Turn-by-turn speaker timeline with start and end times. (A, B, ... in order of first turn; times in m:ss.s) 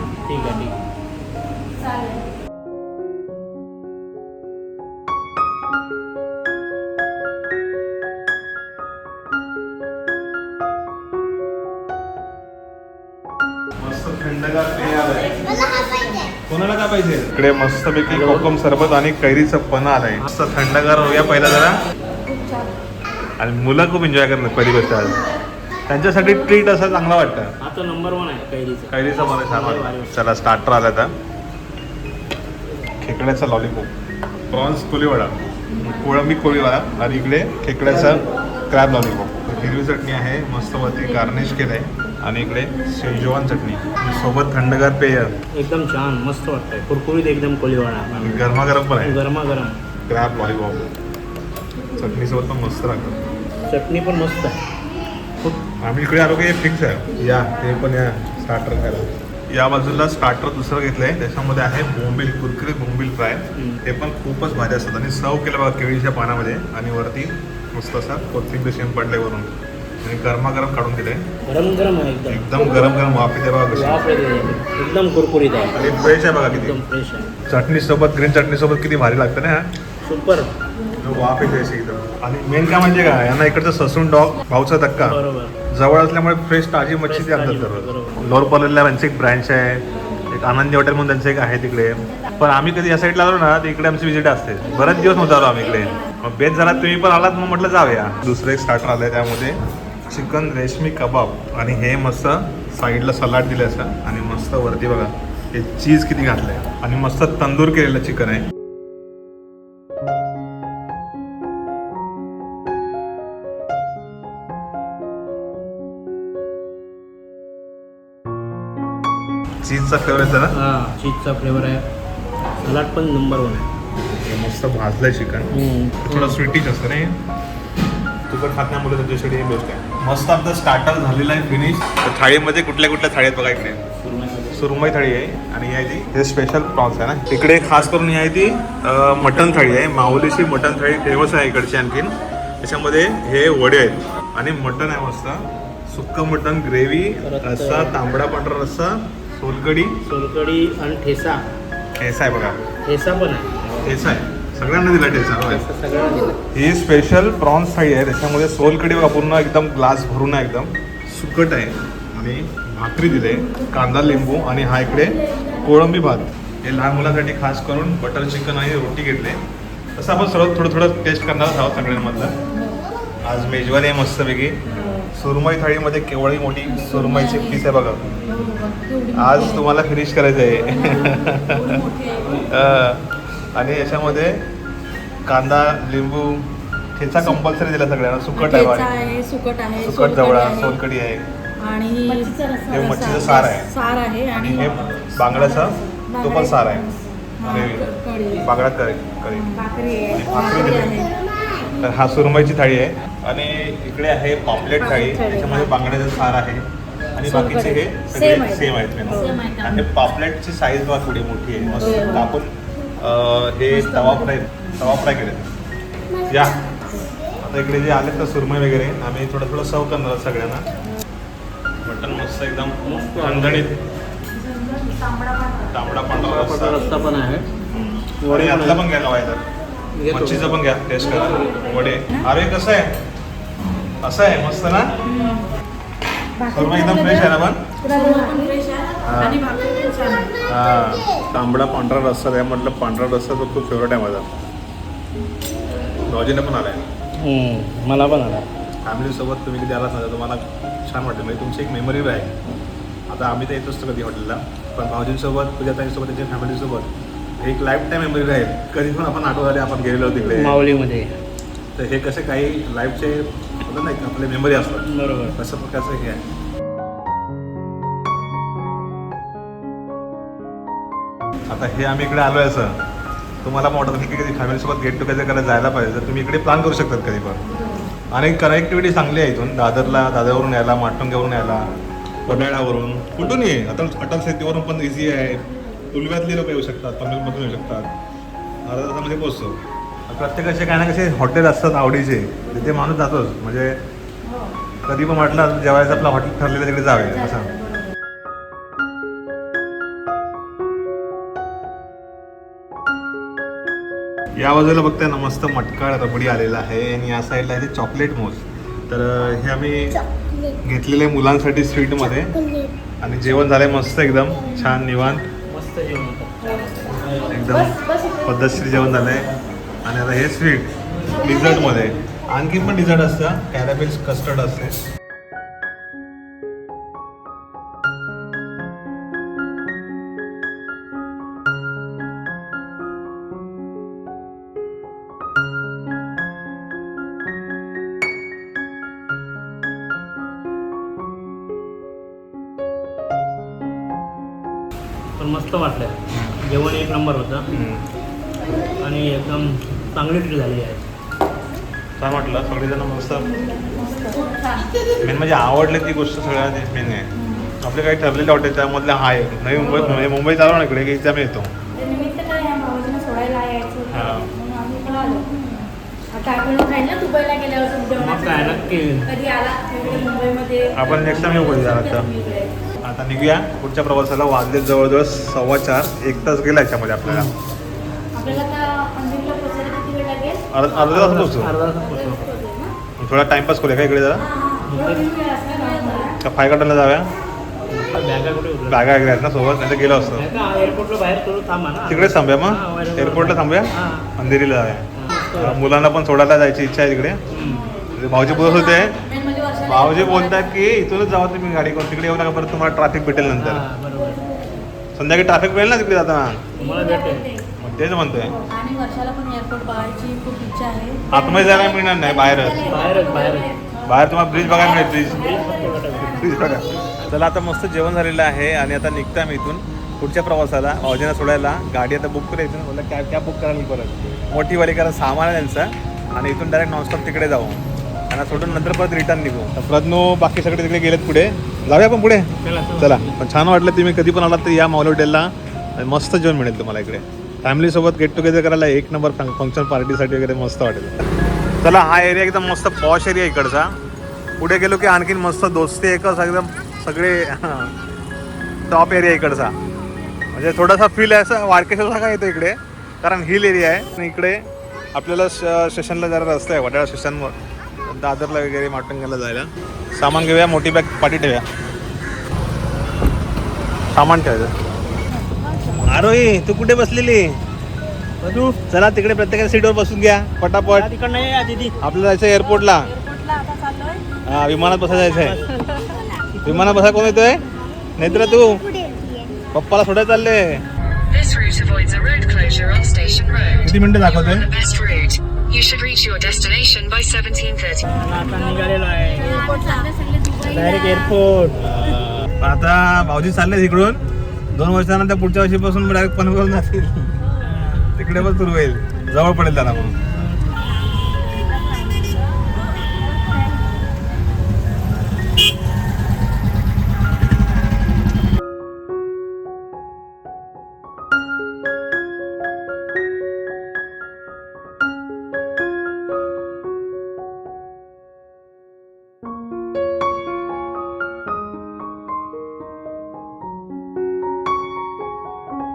0:00.2-0:00.8 A
0:13.8-0:15.4 B
0:16.5-0:21.8 B
0:18.1-0:18.5 A
0:23.4-0:25.2 B
0:25.9-0:27.5 B
0:27.6-0:30.2 A
0:28.9-0:31.1 B
0:33.0-0:33.9 B
0:34.5-0:45.4 B
0:45.5-0:49.8 A
0:48.2-0:49.2 B
0:50.1-0:50.9 B
0:52.0-0:53.2 B
0:53.7-0:54.6 A
0:55.4-1:09.5 B
1:03.6-1:03.8 A
1:10.0-1:11.3 B
1:11.4-1:12.6 A
1:12.3-1:14.0 B
1:13.7-1:17.4 A
1:15.7-1:16.8 B
1:17.5-1:19.7 B
1:20.0-1:20.5 A
1:21.0-1:48.5 B
1:25.0-1:25.6 A
1:27.0-1:28.2 A
1:59.6-2:00.6 B
2:00.5-2:01.8 A
2:02.6-2:03.7 A
2:04.0-2:07.2 B
2:05.5-2:06.4 A
2:08.3-2:13.8 B
2:14.5-2:30.0 B
2:27.2-2:28.0 A
2:30.0-2:31.4 A
2:32.0-2:32.6 B
2:32.8-2:34.0 A
2:33.8-2:35.6 B
2:35.4-2:36.4 A
2:36.5-2:49.4 B
2:50.0-2:52.3 B
2:53.3-2:58.0 B
2:58.4-2:59.1 C
2:59.1-3:04.4 B
3:05.3-3:09.0 B
3:08.8-3:10.5 C
3:09.8-3:11.2 B
3:11.6-3:12.7 C
3:12.7-3:13.8 B
3:13.5-3:14.4 C
3:14.3-3:21.1 B
3:17.6-3:18.4 C
3:19.7-3:20.1 C
3:21.8-3:35.5 B
3:36.2-3:36.6 B
3:37.4-3:40.6 B
3:41.8-3:43.8 B
3:42.8-3:43.7 A
3:44.8-3:45.5 C
3:45.6-3:46.9 B
3:46.1-3:47.5 A
3:48.2-3:48.8 A
3:48.3-3:49.4 B
3:50.0-3:50.6 A
3:50.1-3:52.9 B
3:51.2-3:51.6 A
3:54.0-3:55.1 B
3:56.4-3:57.7 B
3:57.8-4:00.3 C
3:59.0-3:59.4 B
4:00.5-4:04.3 B
4:06.0-4:06.8 B
4:07.2-4:08.5 A
4:08.8-4:12.3 B
4:13.1-4:20.6 B
4:20.2-4:21.2 A
4:21.8-4:26.2 B
4:24.8-4:25.4 A
4:31.5-4:32.8 B
4:33.4-4:37.4 B
4:38.1-4:41.7 B
4:42.2-4:47.9 B
4:48.6-4:53.8 B
4:54.9-4:57.5 B
5:04.4-5:12.4 B
5:13.0-5:15.3 B
5:15.5-5:17.3 A
5:17.3-5:19.3 B
5:19.8-5:24.8 B
5:45.2-5:47.5 A
5:47.5-5:47.8 B
5:48.6-5:50.9 A
5:52.0-5:54.1 B
5:54.1-5:54.7 C
5:55.0-6:01.5 B
5:59.6-6:00.2 A
6:01.8-6:08.0 C
6:03.8-6:04.3 B
6:07.9-6:09.2 A
6:09.2-6:10.8 C
6:10.7-6:12.1 B
6:12.1-6:12.5 C
6:12.8-6:17.3 B
6:17.1-6:17.3 A
6:18.2-6:18.6 A
6:18.3-6:20.4 C
6:20.5-6:21.5 B
6:20.7-6:22.5 A
6:22.4-6:22.7 C
6:23.0-6:24.3 B
6:24.6-6:25.4 A
6:25.2-6:26.2 C
6:26.2-6:27.1 B
6:27.7-6:29.0 A
6:28.7-6:30.3 B
6:30.1-6:34.1 A
6:31.9-6:37.2 B
6:35.0-6:35.8 A
6:37.3-6:37.8 A
6:38.0-6:39.0 B
6:39.1-6:39.8 C
6:39.6-6:43.6 B
6:43.3-6:44.3 A
6:45.0-6:46.4 B
6:46.6-6:47.4 A
6:47.6-6:48.4 B
6:48.5-6:51.1 C
6:51.1-6:52.8 B
6:52.6-6:53.6 A
6:53.9-6:55.3 B
6:55.0-6:56.3 A
6:56.1-7:21.0 B
7:12.4-7:13.2 A
7:21.6-7:23.7 B
7:24.4-7:27.7 B
7:28.7-7:29.5 B
7:30.3-7:41.4 B
7:43.9-7:44.5 B
7:45.7-7:47.3 B
7:48.2-7:48.6 A
7:48.5-7:50.9 B
7:50.7-7:51.8 A
7:51.8-7:52.9 B
7:53.1-7:54.0 C
7:54.3-7:55.4 B
7:55.0-7:56.6 A
7:56.4-7:57.4 B
7:58.0-7:58.8 B
7:59.5-8:00.6 B
8:01.1-8:03.6 D
8:03.6-8:04.5 B
8:04.4-8:07.9 D
8:07.9-8:11.6 A
8:09.4-8:10.4 C
8:11.6-8:14.0 B
8:14.5-8:20.0 B